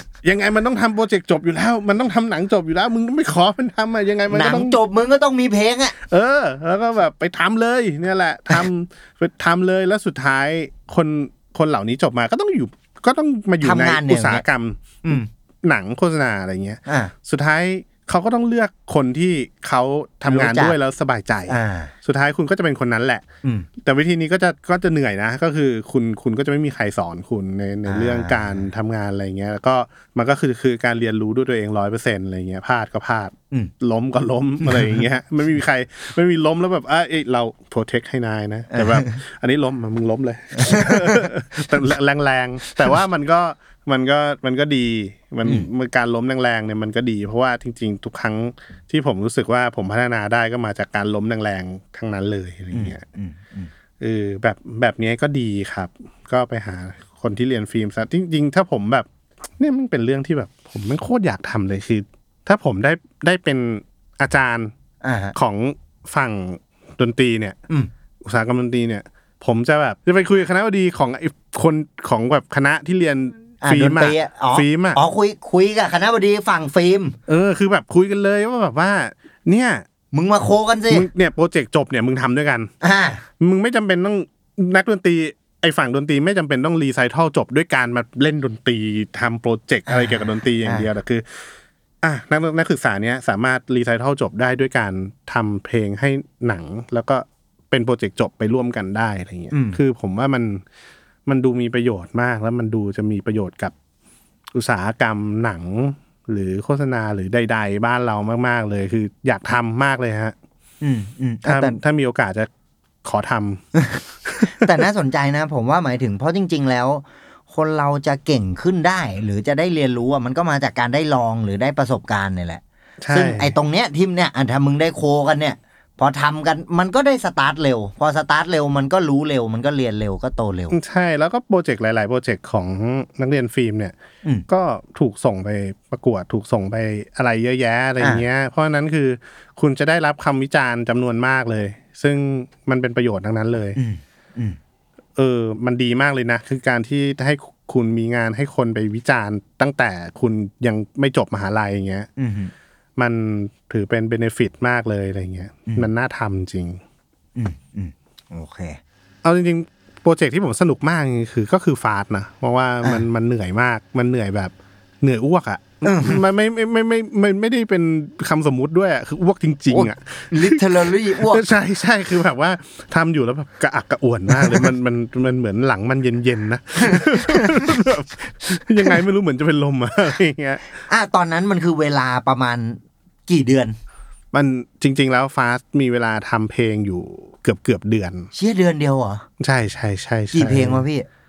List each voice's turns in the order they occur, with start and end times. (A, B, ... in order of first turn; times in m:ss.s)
0:00.2-0:04.8 A
0:04.3-0:06.0 B
0:06.0-0:23.3 A
0:13.6-0:14.4 B
0:16.9-0:17.1 B
0:20.3-0:20.8 B
0:21.5-0:21.9 B
0:23.4-0:23.7 B
0:23.8-0:53.0 A
0:27.9-0:28.7 B
0:34.6-0:35.0 B
0:38.7-0:39.2 B
0:40.6-0:41.3 B
0:52.7-0:53.7 B
0:54.0-0:59.1 A
0:59.6-1:04.7 A
1:05.0-1:05.4 B
1:05.4-1:07.6 A
1:08.2-1:15.0 A
1:13.6-1:17.2 B
1:17.3-1:19.8 A
1:20.1-1:21.1 B
1:20.9-1:22.7 A
1:22.8-1:23.2 B
1:23.4-1:31.4 A
1:29.9-1:30.9 B
1:32.0-1:40.6 A
1:39.5-1:39.8 B
1:41.3-1:43.7 A
1:44.5-1:50.4 A
1:50.8-1:51.8 B
1:51.4-1:52.5 A
1:53.0-1:53.6 A
1:54.3-1:54.8 A
1:54.5-2:10.8 B
2:03.0-2:03.6 A
2:10.7-2:14.0 A
2:14.5-2:23.8 A
2:23.8-2:24.6 B
2:25.2-2:32.1 A
2:32.2-2:32.5 B
2:33.0-2:36.8 A
2:37.4-2:38.8 B
2:39.2-3:00.6 A
2:45.8-2:46.2 B
2:49.7-2:51.5 B
2:54.3-2:54.7 B
2:56.8-2:57.7 B
3:00.9-3:03.8 B
3:04.3-3:08.3 A
3:08.4-3:09.2 B
3:09.4-3:10.9 A
3:10.3-3:11.1 B